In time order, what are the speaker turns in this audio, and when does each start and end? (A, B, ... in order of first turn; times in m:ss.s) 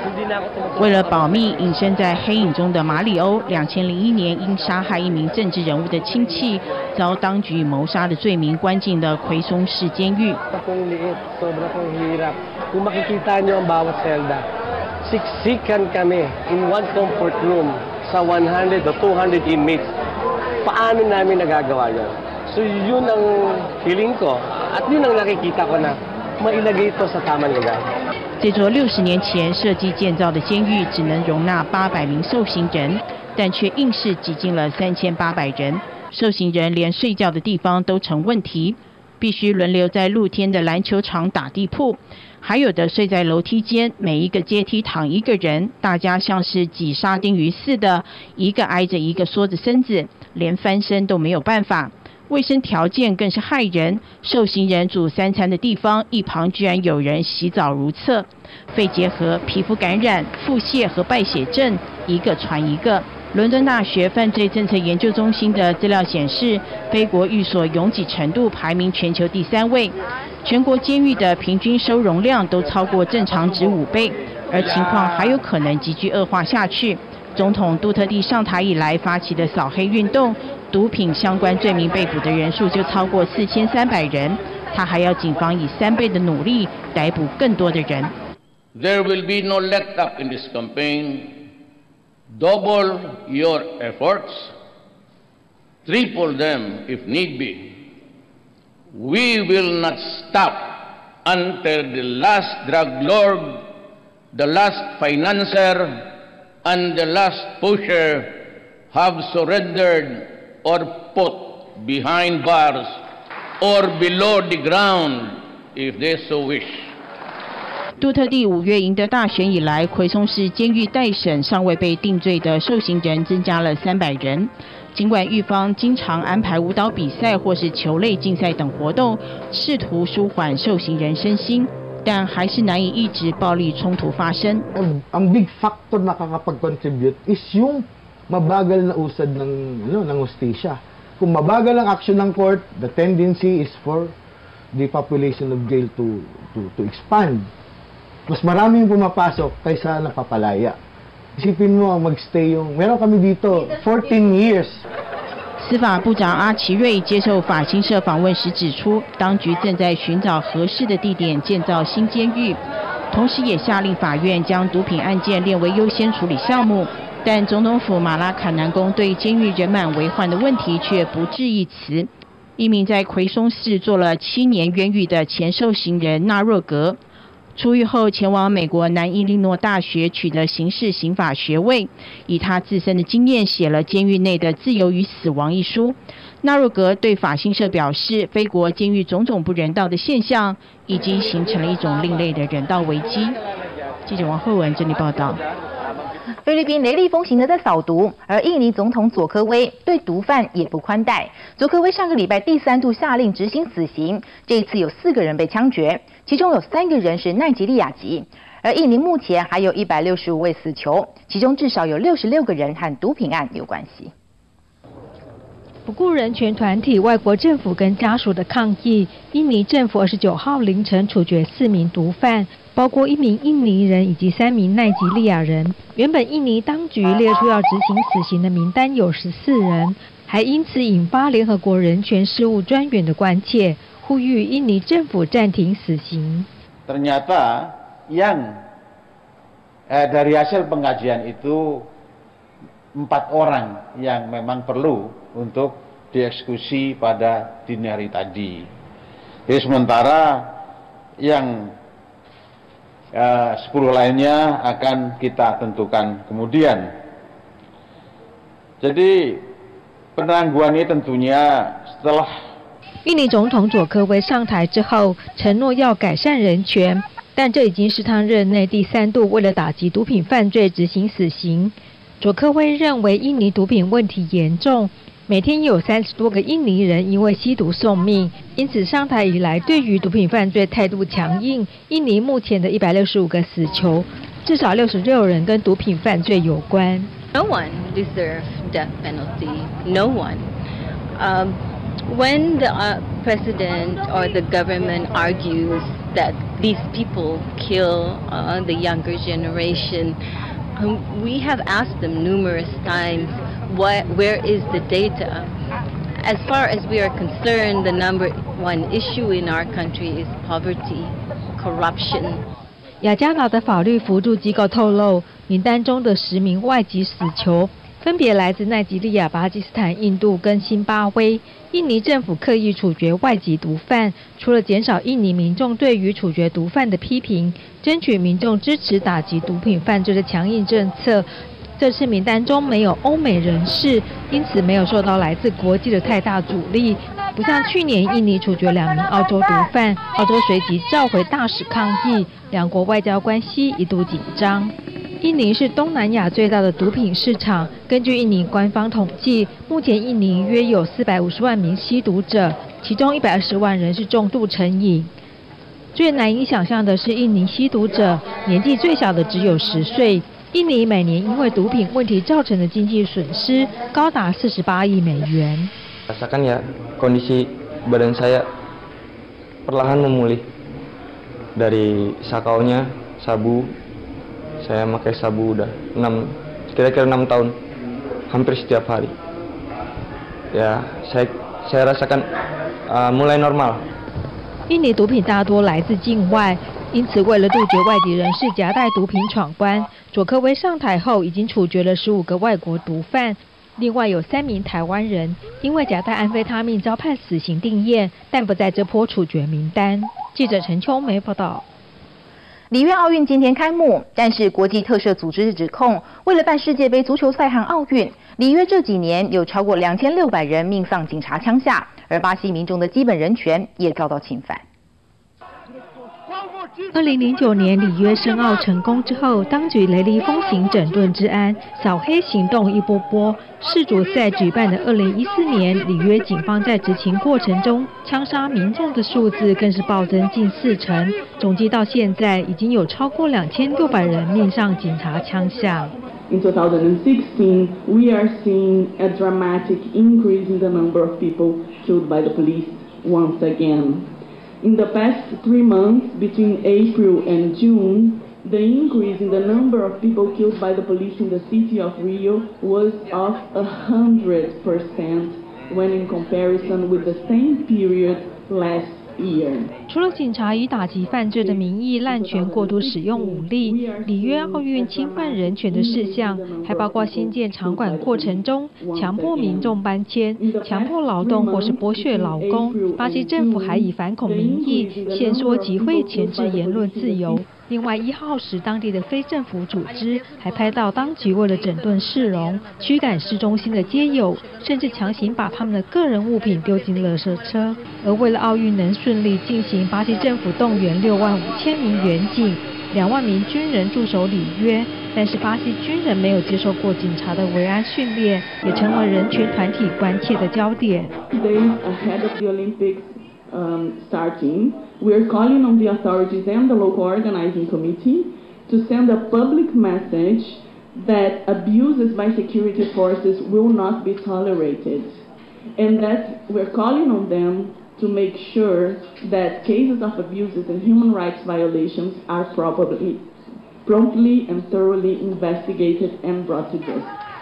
0:00.8-0:10.4 A
0:10.5-0:14.4 B
0:15.0-0:19.9 B
0:20.6-0:27.8 B
0:28.4-1:28.2 A
1:28.8-1:31.5 C
1:32.3-1:34.6 C
1:35.8-1:37.8 C
1:38.9-1:43.7 C
1:44.3-1:53.0 C
1:53.6-1:57.0 C
1:58.0-2:14.6 A
2:14.8-2:24.1 D
2:24.7-2:27.5 D
2:28.3-2:30.8 D
2:31.4-2:34.8 D
2:35.6-2:57.0 A
2:57.6-3:13.4 A
3:14.1-3:15.4 A
3:16.4-3:34.1 E
3:35.9-3:56.5 F
3:56.9-3:58.6 G
3:59.9-4:01.9 G
4:03.0-4:08.7 G
4:09.5-4:10.6 G
4:11.2-4:11.7 G
4:13.1-4:17.0 G
4:18.8-4:19.5 G
4:20.2-4:22.3 G
4:23.0-4:47.1 F
4:47.3-4:50.5 H
4:51.2-5:00.2 H
5:00.8-5:05.5 H
5:06.2-5:12.4 H
5:13.0-5:55.1 F
5:55.9-6:05.7 F
6:06.1-6:08.5 I
6:09.7-6:10.5 I
6:11.6-6:13.8 I
6:14.6-6:17.6 I
6:18.3-6:19.2 I
6:20.5-6:22.3 I
6:22.9-6:23.9 I
6:24.7-6:41.6 F
6:42.7-6:54.6 E
6:56.9-7:15.9 F
7:16.3-7:24.1 J
7:24.6-7:39.7 J
7:39.9-8:21.1 F
7:41.3-7:49.8 J
7:50.4-7:57.5 J
8:21.3-8:35.2 J
8:35.8-8:43.3 J
8:43.8-8:47.1 J